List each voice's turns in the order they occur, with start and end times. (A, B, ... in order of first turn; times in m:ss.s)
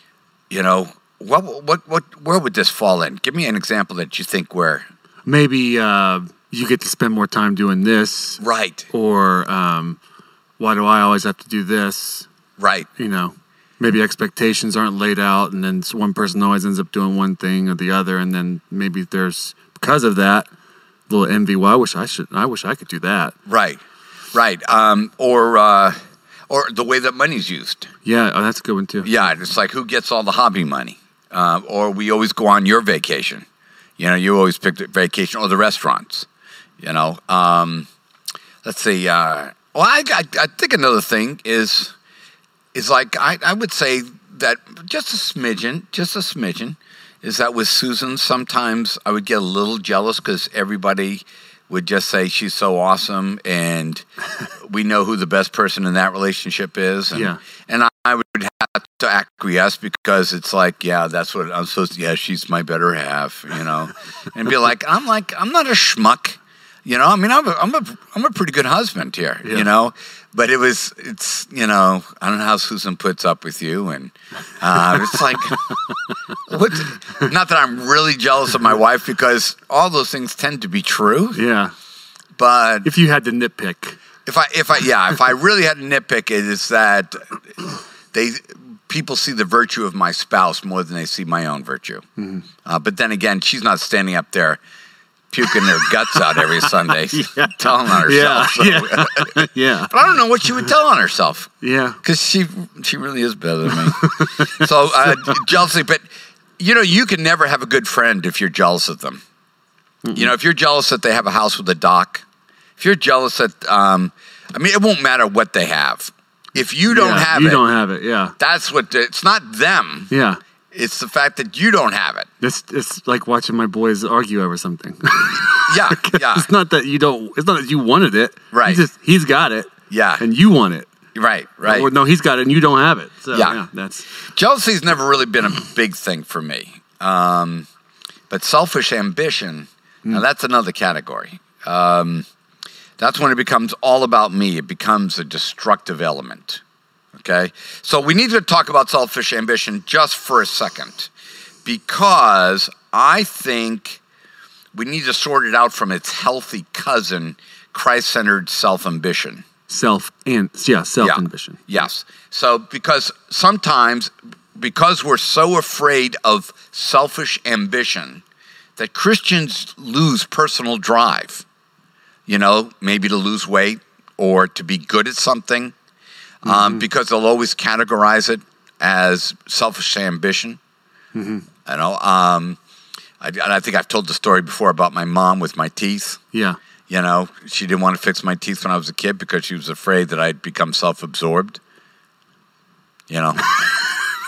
0:00.5-0:04.9 A
0:05.2-0:10.0 B
0:08.4-0:08.9 A
0:10.6-0:12.3 B
0:12.6-0:12.9 A
0:13.0-0:20.5 B
0:21.1-0:23.4 B
0:23.5-0:23.8 A
0:24.3-0:26.0 A
0:26.5-0:27.9 A
0:28.0-0:29.1 B
0:29.0-0:33.4 A
0:34.0-0:36.3 A
0:36.8-0:37.9 A
0:38.6-0:42.0 A
0:42.7-1:15.8 A
0:57.1-0:57.4 B
1:09.4-1:09.7 B
1:16.5-1:21.4 A
1:21.3-1:21.7 B
1:22.4-1:22.9 A
1:22.8-1:24.0 B
1:24.3-1:32.0 A
1:32.2-1:32.4 B
1:32.6-1:34.6 A
1:35.3-1:41.5 A
1:35.6-1:39.9 B
1:41.6-1:42.0 B
1:42.0-1:46.0 A
1:43.7-1:45.4 B
1:46.6-1:49.2 A
1:50.0-1:50.3 B
1:50.1-1:52.2 A
1:52.8-1:57.6 A
1:56.9-1:58.4 B
1:58.4-2:00.1 A
2:00.1-2:00.4 B
2:00.7-2:02.3 A
2:02.4-2:10.9 B
2:05.7-2:06.5 A
2:08.5-2:08.8 A
2:09.9-2:10.2 A
2:11.1-2:11.9 A
2:11.6-2:14.1 B
2:13.3-2:13.6 A
2:14.3-2:17.7 A
2:18.3-2:22.3 A
2:23.0-2:26.6 A
2:27.1-2:31.1 A
2:31.6-2:34.0 A
2:34.7-2:39.4 A
2:39.7-2:41.7 B
2:41.0-2:48.2 A
2:48.8-2:51.4 A
2:52.3-2:55.7 A
2:56.4-3:00.6 A
2:56.5-2:56.8 B
3:01.1-3:01.5 B
3:01.6-3:02.6 A
3:03.2-3:06.2 A
3:06.3-3:06.6 B
3:06.9-3:11.6 A
3:13.1-3:13.8 A
3:13.4-3:14.1 B